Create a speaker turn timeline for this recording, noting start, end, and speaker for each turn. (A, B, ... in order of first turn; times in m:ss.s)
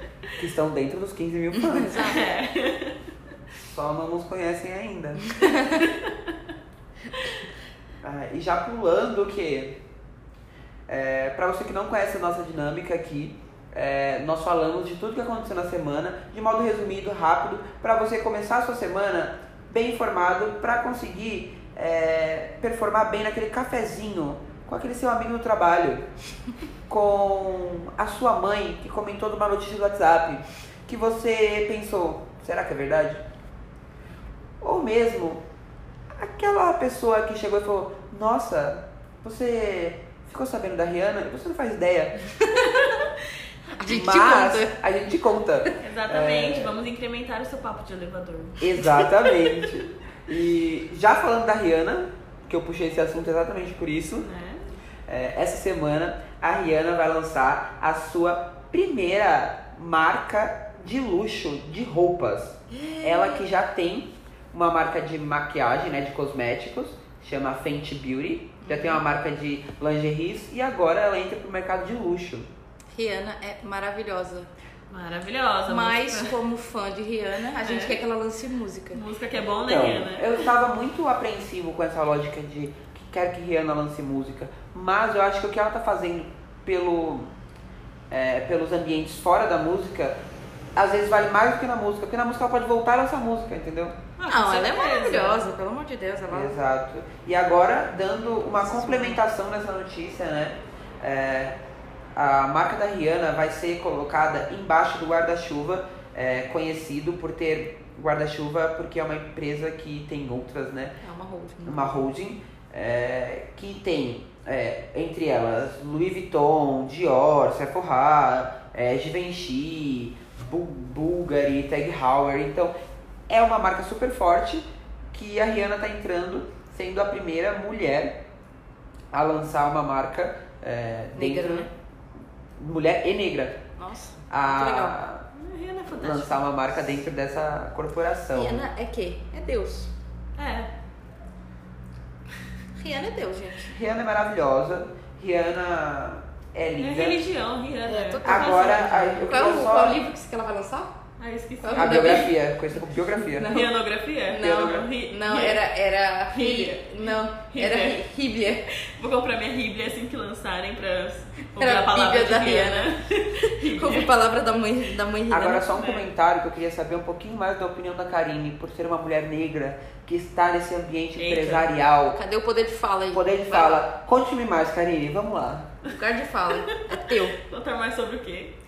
0:00.4-0:02.1 A
0:01.5-0:02.2 B
0:01.9-0:03.0 C
0:03.7-0:05.5 A
0:05.3-0:05.8 B
0:05.8-0:06.4 C
0:08.0-0:09.8 A
0:10.9-0:26.1 A
0:26.9-0:33.2 A
0:34.6-0:35.4 A
0:36.1-0:42.2 A
0:42.4-0:42.8 B
0:43.8-0:44.8 B
0:43.9-0:46.8 A
0:45.8-0:49.7 C
0:48.6-0:54.3 A
0:54.2-0:54.7 C
0:55.1-1:12.5 A
1:02.7-1:03.4 B
1:08.6-1:09.0 B
1:12.9-1:14.5 B
1:14.9-1:16.4 C
1:15.7-1:19.0 B
1:17.6-1:18.0 C
1:18.9-1:20.5 C
1:19.7-1:27.3 A
1:28.1-1:30.2 A
1:30.8-1:34.0 A
1:34.2-1:35.5 C
1:34.3-1:36.6 B
1:36.3-1:41.6 A
1:38.6-1:39.2 B
1:42.2-1:51.0 A
1:51.0-1:52.0 B
1:51.6-2:02.7 A
2:03.3-2:08.2 A
2:09.1-2:11.7 A
2:11.2-2:11.7 B
2:12.6-2:13.6 A
2:13.8-2:15.0 B
2:14.3-2:15.2 A
2:15.3-2:16.5 C
2:16.0-2:18.6 A
2:18.3-2:19.9 B
2:20.4-2:20.7 C
2:22.8-2:23.8 B
2:23.7-2:27.3 A
2:26.8-2:29.4 C
2:27.9-2:30.9 B
2:28.2-2:30.0 A
2:31.2-2:32.3 C
2:31.6-2:32.4 B
2:31.8-2:33.6 A
2:32.9-2:33.8 B
2:33.4-2:35.6 C
2:34.3-2:38.7 B
2:34.3-2:34.9 A
2:36.3-2:38.0 C
2:38.7-2:44.1 C
2:41.6-2:45.7 B
2:45.3-2:52.2 A
2:45.7-2:46.1 C
2:51.2-2:51.7 C
2:52.1-2:53.9 B
2:53.1-2:55.7 A
2:55.8-2:57.4 B
2:56.6-2:58.6 C